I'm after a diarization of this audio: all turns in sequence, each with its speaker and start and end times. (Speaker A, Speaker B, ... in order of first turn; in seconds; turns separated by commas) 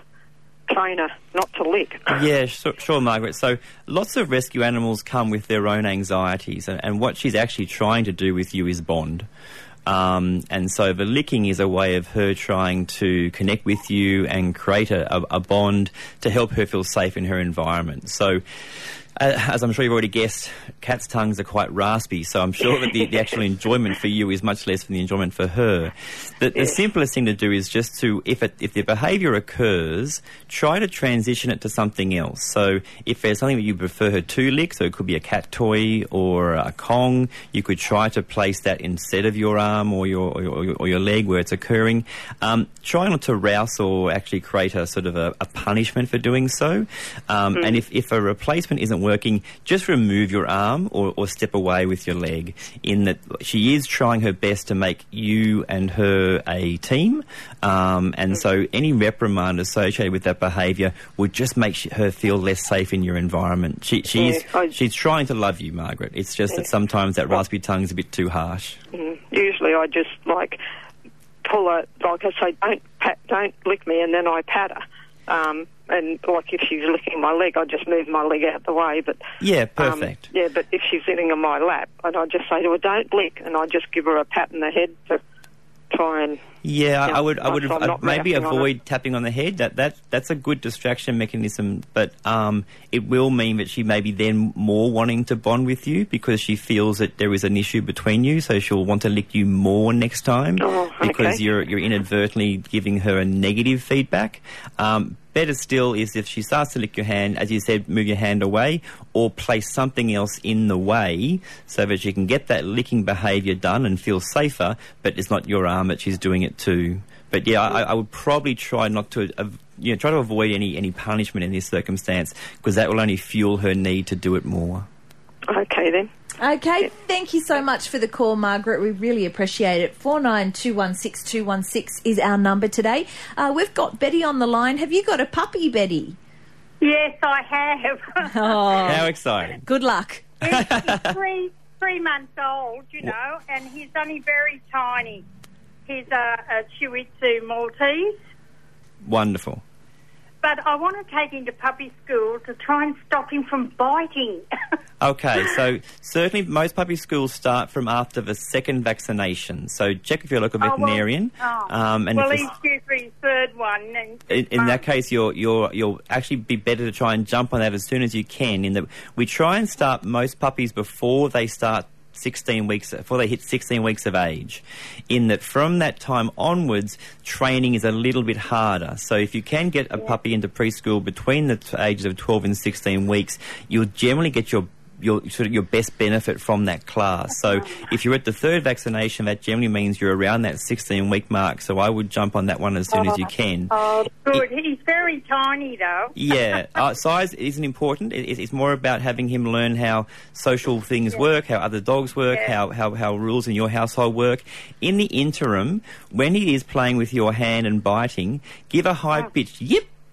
Speaker A: 0.7-2.1, Speaker B: 2.1-9.3, Speaker B: 9.8-18.4, Speaker B: 19.1-68.8, Speaker A: 64.1-64.7, Speaker A: 68.9-70.6, Speaker A: 71.4-79.2, Speaker B: 79.4-80.3, Speaker A: 79.8-85.2, Speaker A: 85.9-86.4, Speaker B: 86.6-124.8, Speaker A: 87.0-88.7, Speaker A: 100.6-101.4, Speaker A: 125.5-126.1, Speaker C: 126.4-136.2, Speaker D: 136.8-138.8, Speaker C: 138.2-139.1, Speaker B: 138.8-139.6, Speaker C: 139.6-140.4, Speaker D: 140.4-145.2, Speaker B: 140.4-141.2, Speaker D: 145.9-148.2, Speaker B: 149.0-149.6, Speaker D: 150.4-154.4, Speaker B: 155.0-162.5, Speaker D: 160.6-164.8, Speaker B: 164.3-193.7, Speaker D: 187.5-187.8, Speaker D: 192.9-196.6, Speaker B: 196.1-209.9, Speaker D: 202.3-202.6